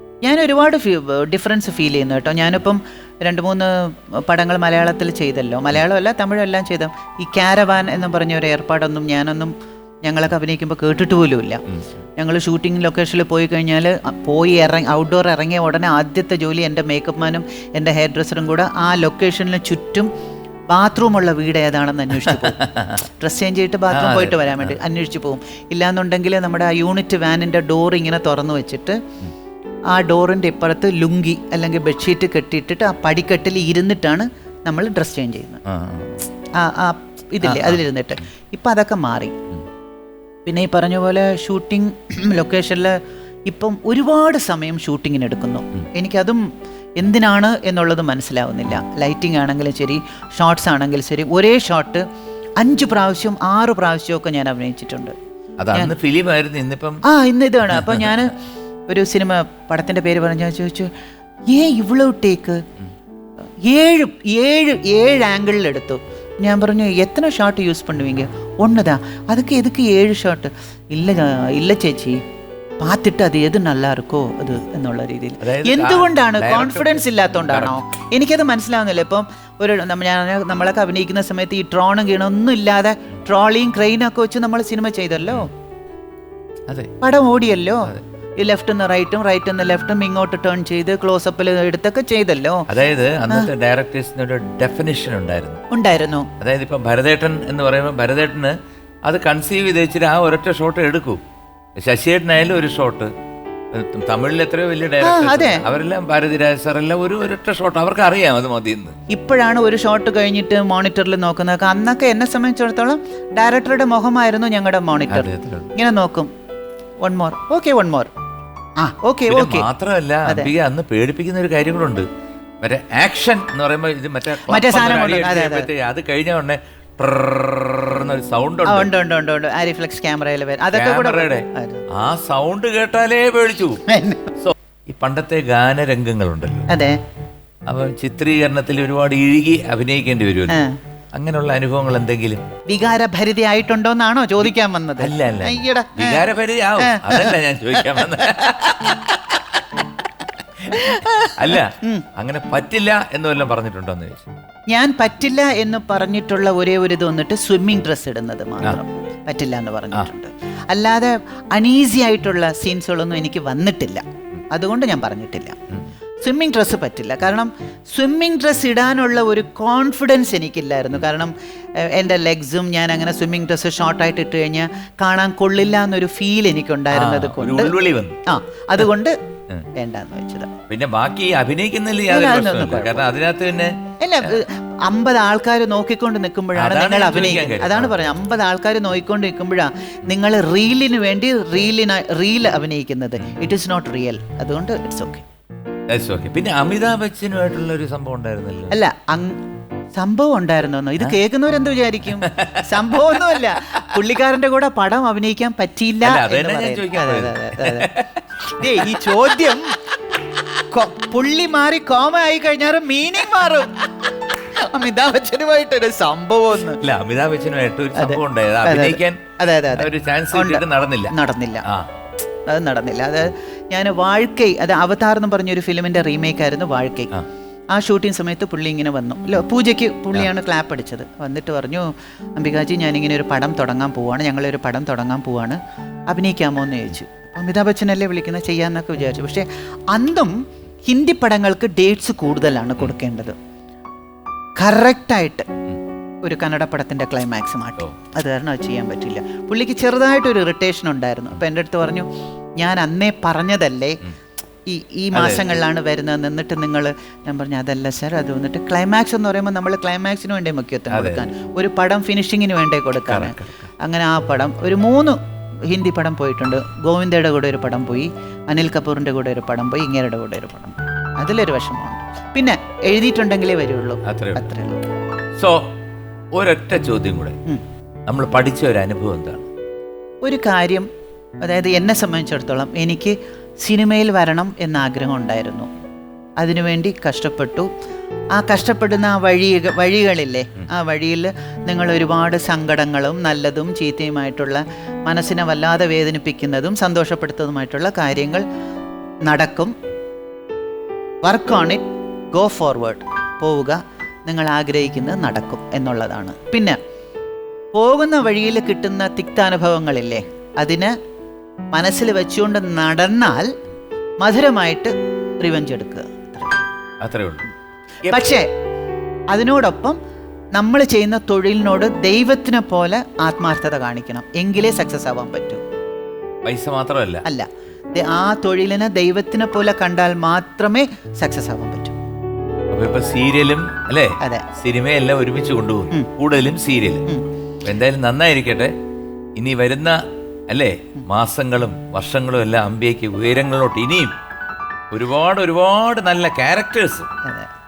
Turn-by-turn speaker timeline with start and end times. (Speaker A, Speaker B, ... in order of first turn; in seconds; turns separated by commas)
Speaker A: 0.2-9.5, Speaker A: 10.0-11.6, Speaker A: 12.2-20.1, Speaker A: 20.7-22.6, Speaker B: 22.3-23.0, Speaker A: 23.2-29.0, Speaker B: 23.9-24.8, Speaker A: 29.9-35.6, Speaker B: 35.7-36.2, Speaker A: 36.5-39.4, Speaker B: 37.4-37.8, Speaker A: 40.5-46.4, Speaker A: 47.0-52.1, Speaker A: 52.6-55.1, Speaker B: 55.6-57.0, Speaker A: 57.0-58.3, Speaker B: 57.7-58.1, Speaker A: 58.9-60.9, Speaker A: 61.5-62.6, Speaker A: 63.7-72.2, Speaker A: 72.8-85.5, Speaker B: 75.4-77.8, Speaker B: 86.7-86.9, Speaker A: 87.0-92.7, Speaker B: 92.7-95.6, Speaker A: 95.7-96.3, Speaker B: 96.4-101.2, Speaker B: 101.8-103.1, Speaker B: 103.7-109.0, Speaker A: 105.0-105.6, Speaker A: 109.1-116.3, Speaker B: 115.1-115.7, Speaker A: 117.0-118.1, Speaker A: 118.8-119.7, Speaker B: 119.3-122.1, Speaker A: 120.2-120.5, Speaker B: 122.6-128.9, Speaker A: 124.4-125.7, Speaker A: 128.7-131.8, Speaker B: 130.7-133.8, Speaker A: 133.9-134.3, Speaker B: 134.4-136.7, Speaker A: 136.7-137.0, Speaker B: 137.7-140.6, Speaker A: 140.5-140.8, Speaker B: 141.2-142.4, Speaker A: 142.7-146.3, Speaker B: 145.0-149.6, Speaker A: 146.8-148.2, Speaker B: 150.6-154.3, Speaker A: 150.7-152.1, Speaker A: 154.7-165.6, Speaker A: 166.2-177.7, Speaker B: 176.9-178.2, Speaker A: 178.3-179.2, Speaker A: 179.8-180.5, Speaker B: 180.7-184.3, Speaker A: 182.1-183.1, Speaker A: 184.0-195.2, Speaker B: 186.6-188.0, Speaker B: 195.9-198.8, Speaker A: 198.7-199.4, Speaker A: 199.9-207.9, Speaker B: 202.1-203.9, Speaker B: 206.0-209.1, Speaker A: 208.5-209.8, Speaker A: 210.7-216.8, Speaker B: 216.8-219.2, Speaker A: 217.9-221.7, Speaker B: 219.7-221.1, Speaker A: 222.5-227.1, Speaker A: 227.7-235.6, Speaker A: 236.1-240.3, Speaker A: 240.8-243.4, Speaker A: 244.6-245.5, Speaker A: 246.2-252.1, Speaker A: 252.6-254.0, Speaker A: 254.7-265.2, Speaker B: 255.1-255.6, Speaker B: 260.9-261.3, Speaker B: 263.1-263.7, Speaker A: 265.7-274.9, Speaker B: 274.0-274.4, Speaker B: 275.4-275.7, Speaker B: 276.3-277.4, Speaker B: 278.1-279.5, Speaker A: 280.2-280.9, Speaker A: 281.4-285.7, Speaker A: 286.4-287.7, Speaker A: 288.3-298.4, Speaker A: 299.2-299.8, Speaker A: 301.2-301.8, Speaker A: 302.3-306.8, Speaker A: 307.7-310.9, Speaker A: 311.7-313.5, Speaker A: 314.2-316.7, Speaker B: 317.0-317.5, Speaker A: 318.1-318.5, Speaker A: 319.3-320.0, Speaker A: 320.6-325.6, Speaker B: 326.5-327.2, Speaker A: 327.2-332.0, Speaker B: 332.7-337.1, Speaker A: 334.2-334.5, Speaker B: 337.6-338.7, Speaker B: 339.4-344.1, Speaker B: 344.9-347.1